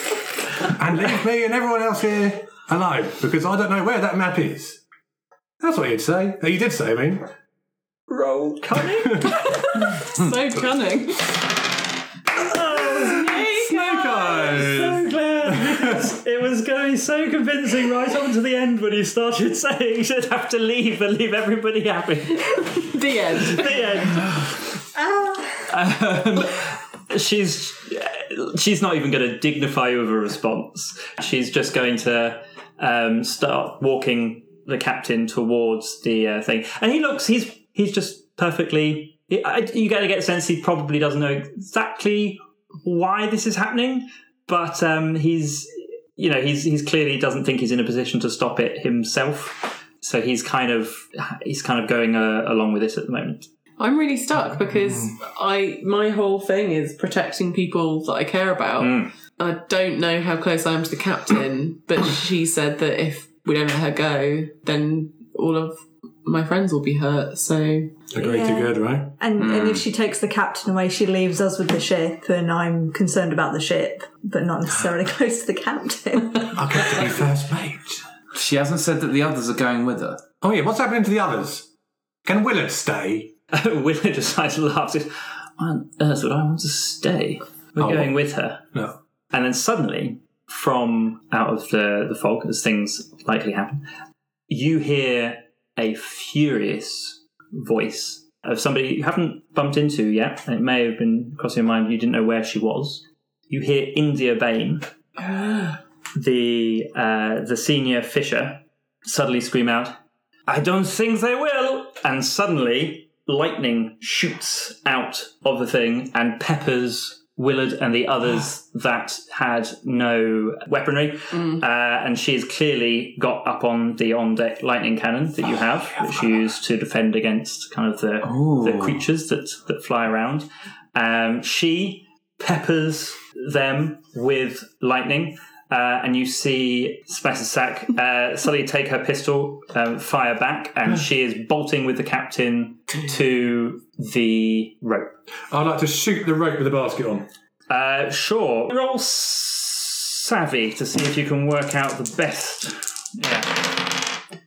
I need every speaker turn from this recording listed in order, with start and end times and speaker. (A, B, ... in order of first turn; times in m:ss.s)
0:00.7-0:04.8 A
0:05.6-0:07.3 A
0:08.1-0:09.6 B
0:09.4-0:11.4 C
0:12.4-0:22.9 B
0:12.9-0:15.8 A
0:13.0-0:13.9 C
0:22.8-0:24.2 C
0:23.4-0:24.6 B
0:25.0-0:25.7 D
0:25.7-0:53.5 B
0:53.8-1:08.1 C
0:54.4-0:55.2 A
0:58.8-0:59.1 B
1:08.1-1:09.2 A
1:08.2-1:17.1 D
1:09.4-1:09.8 E
1:16.5-1:18.0 A
1:18.3-1:20.2 E
1:20.4-1:21.7 A
1:22.2-1:23.3 A
1:23.5-1:28.7 B
1:27.8-1:28.2 A
1:29.3-1:33.8 B
1:34.5-1:50.0 B
1:50.5-2:25.2 B
2:01.4-2:01.6 C
2:08.2-2:09.0 E
2:25.5-2:27.3 A
2:27.7-2:33.5 B